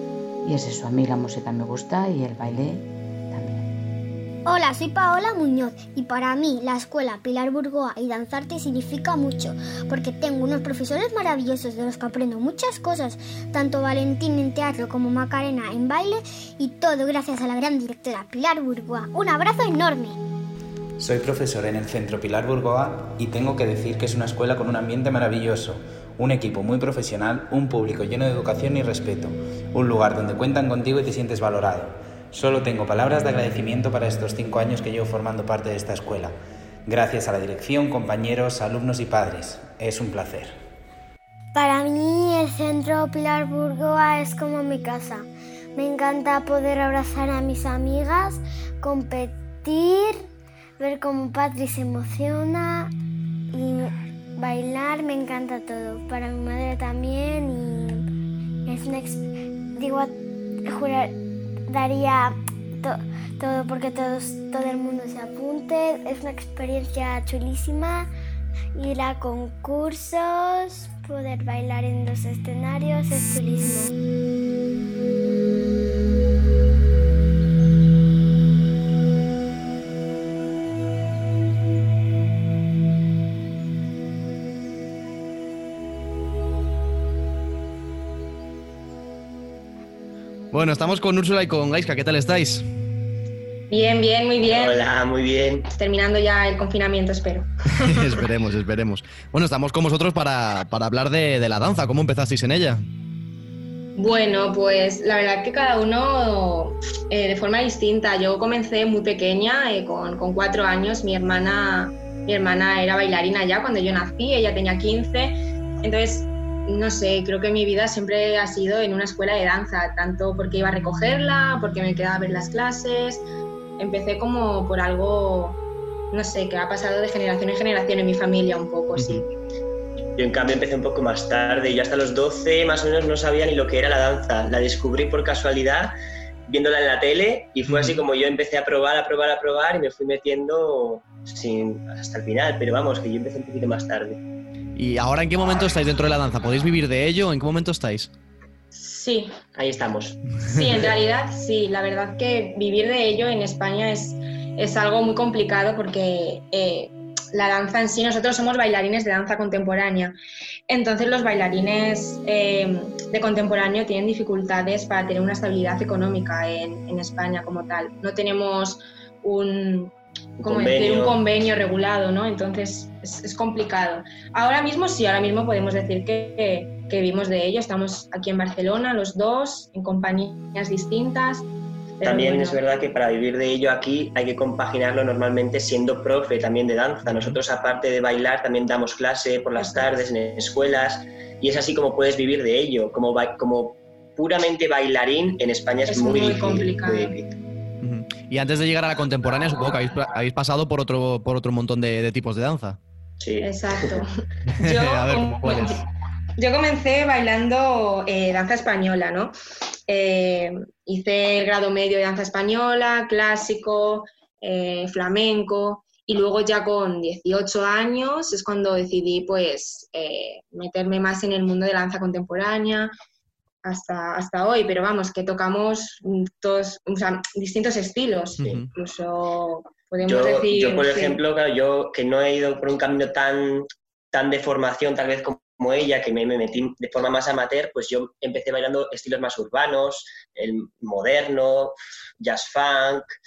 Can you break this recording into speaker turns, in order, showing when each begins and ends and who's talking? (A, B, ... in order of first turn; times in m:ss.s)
0:00.4-0:03.7 A
0:04.7-0:11.0 B
0:11.8-0:12.7 B
0:13.6-0:16.2 B
0:21.0-0:40.6 C
0:41.6-0:50.1 B
0:50.8-0:52.9 B
0:53.5-0:58.0 B
0:58.7-0:59.2 B
0:59.8-1:00.1 B
1:00.7-1:01.1 B
1:01.7-1:08.1 B
1:08.8-1:13.9 B
1:30.5-1:32.6 D
1:33.7-1:34.8 E
1:34.4-1:35.6 F
1:35.7-1:37.5 E
1:37.8-1:42.8 D
1:44.0-2:03.2 E
2:03.8-2:05.6 E
2:06.1-2:09.2 E
2:09.0-2:09.2 D
2:10.2-2:15.9 F
2:16.5-2:24.2 F
2:17.7-2:18.0 D
2:24.8-2:28.1 D
2:28.8-2:29.4 E
2:29.6-2:30.2 F
2:30.5-2:40.2 E
2:40.7-3:01.5 E
2:50.4-2:51.2 F
3:02.0-3:02.7 E
3:02.0-3:17.3 F
3:07.1-3:07.4 D
3:09.6-3:10.0 E
3:15.9-3:17.1 E
3:17.8-3:22.8 D
3:23.2-3:23.9 F
3:23.4-3:25.8 E
3:24.6-3:25.7 D
3:26.4-3:29.3 E
3:29.9-3:42.9 E
3:43.6-3:51.2 E
3:48.4-3:48.7 D
3:50.0-4:03.1 F